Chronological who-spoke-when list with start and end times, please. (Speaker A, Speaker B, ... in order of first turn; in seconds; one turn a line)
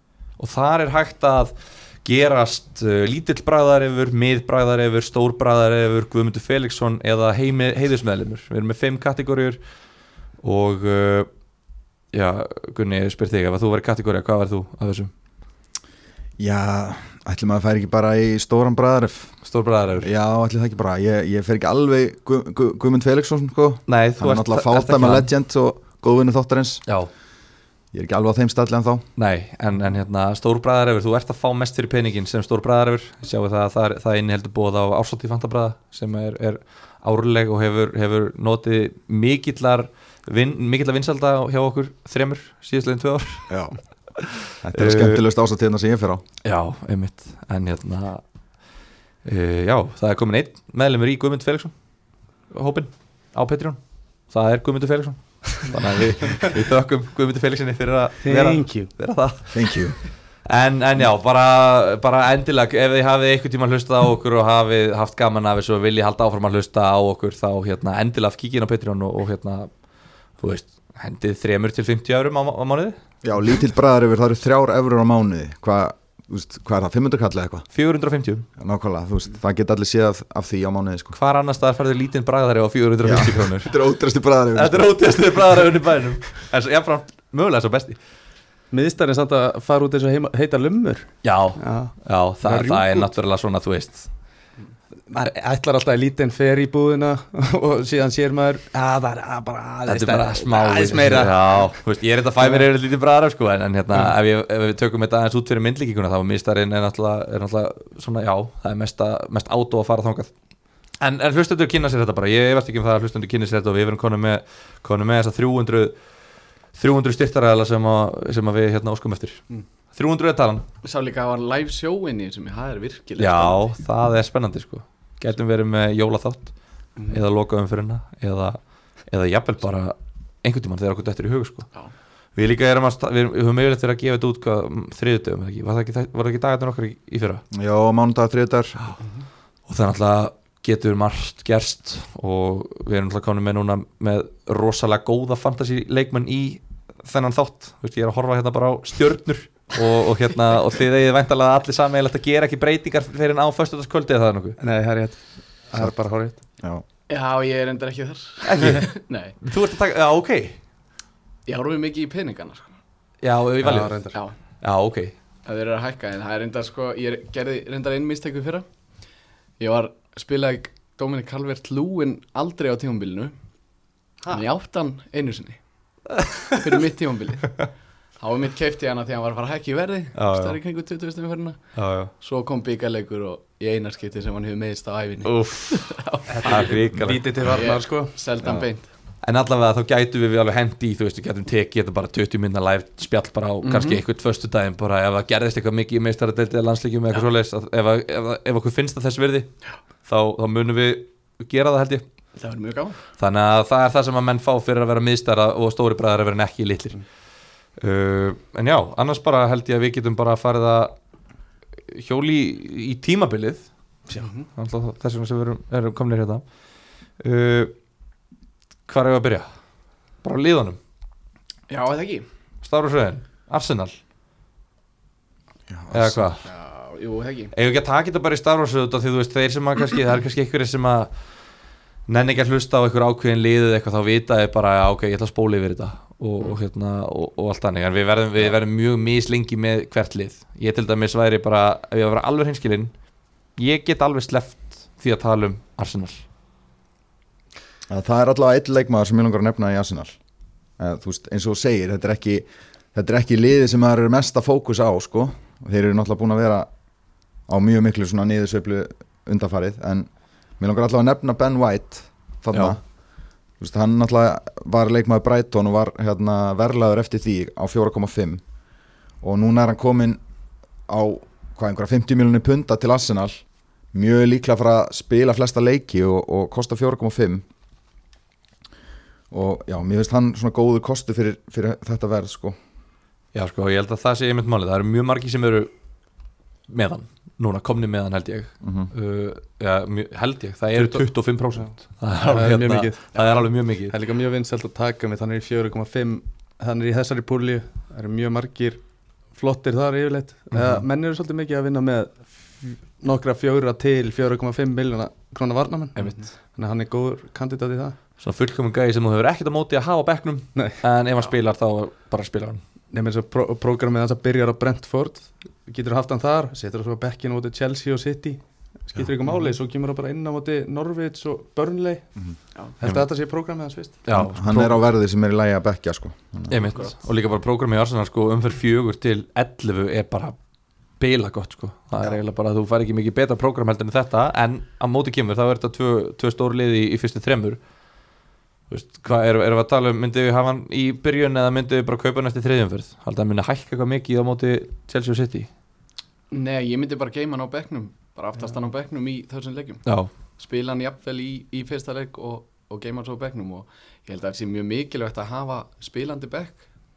Speaker A: 0.4-9.6
Speaker A: 10.4-11.3
Speaker A: 12.1-15.1
Speaker B: 16.4-19.3
Speaker A: 19.4-20.1
Speaker B: 20.0-26.8
Speaker A: 23.9-25.3
Speaker B: 27.9-29.0
Speaker A: 29.1-43.5
Speaker B: 43.5-43.8
Speaker A: 44.2-45.2
Speaker B: 44.6-46.2
Speaker A: 46.4-48.2
Speaker A: 49.2-51.7
Speaker A: 52.5-53.8
Speaker A: 54.3-59.9
Speaker C: 58.2-58.9
Speaker B: 59.5-60.0
Speaker A: 60.5-69.7
Speaker A: 70.4-73.0
Speaker B: 73.2-77.7
Speaker A: 77.7-78.5
Speaker B: 78.6-81.2
Speaker A: 81.1-83.8
Speaker B: 83.0-85.0
Speaker A: 84.5-88.0
Speaker C: 88.7-93.1
Speaker A: 91.2-94.1
Speaker C: 95.1-101.7
Speaker A: 99.9-110.3
Speaker C: 102.4-102.7
Speaker A: 111.0-115.9
Speaker A: 116.7-119.4
Speaker A: 119.9-120.7
Speaker D: 120.8-123.7
Speaker A: 123.2-126.5
Speaker D: 127.0-127.2
Speaker A: 127.1-131.7
Speaker A: 132.3-137.4
Speaker B: 137.5-138.9
Speaker A: 139.7-154.6
Speaker C: 154.6-155.2
Speaker C: 155.7-156.4
Speaker D: 157.1-159.4
Speaker A: 158.4-158.9
Speaker A: 159.4-160.6
Speaker D: 161.5-162.7
Speaker A: 163.2-164.1
Speaker C: 163.6-164.1
Speaker A: 164.6-165.1
Speaker D: 165.4-168.7
Speaker D: 169.6-173.3
Speaker D: 174.3-175.6
Speaker A: 176.2-176.5
Speaker D: 176.5-177.6
Speaker D: 178.2-181.6
Speaker A: 180.1-180.6
Speaker A: 181.7-182.1
Speaker D: 182.2-186.7
Speaker A: 185.2-187.5
Speaker C: 186.3-188.1
Speaker D: 187.5-188.9
Speaker A: 189.2-199.5
Speaker D: 193.6-194.0
Speaker A: 200.0-202.0
Speaker D: 202.4-203.0
Speaker A: 203.2-207.0
Speaker A: 207.8-210.9
Speaker A: 211.9-213.7
Speaker D: 214.2-214.5
Speaker A: 214.5-216.4
Speaker A: 217.2-217.7
Speaker A: 218.9-219.4
Speaker A: 220.2-220.8
Speaker D: 221.7-222.2
Speaker A: 222.6-224.0
Speaker B: 225.7-226.3
Speaker A: 225.9-226.4
Speaker D: 226.4-227.5
Speaker A: 227.5-231.1
Speaker A: 232.1-242.9
Speaker A: 243.6-246.2
Speaker B: 247.9-250.1
Speaker B: 250.8-256.7
Speaker B: 257.5-262.8
Speaker B: 263.6-268.4
Speaker B: 269.2-270.2
Speaker B: 270.9-273.4
Speaker B: 273.9-277.4
Speaker B: 279.3-282.6
Speaker A: 283.3-285.7
Speaker A: 286.7-293.9
Speaker B: 288.6-288.9
Speaker C: 290.8-298.8
Speaker C: 299.3-308.0
Speaker A: 306.0-306.2
Speaker A: 308.2-312.6
Speaker C: 310.5-310.8
Speaker C: 312.9-322.1
Speaker C: 322.8-324.2
Speaker A: 322.8-323.1
Speaker A: 324.1-324.8
Speaker B: 324.2-326.6
Speaker A: 326.5-330.4
Speaker A: 331.0-337.6
Speaker A: 338.7-345.5
Speaker D: 346.3-349.8
Speaker A: 349.8-350.1
Speaker D: 350.4-356.6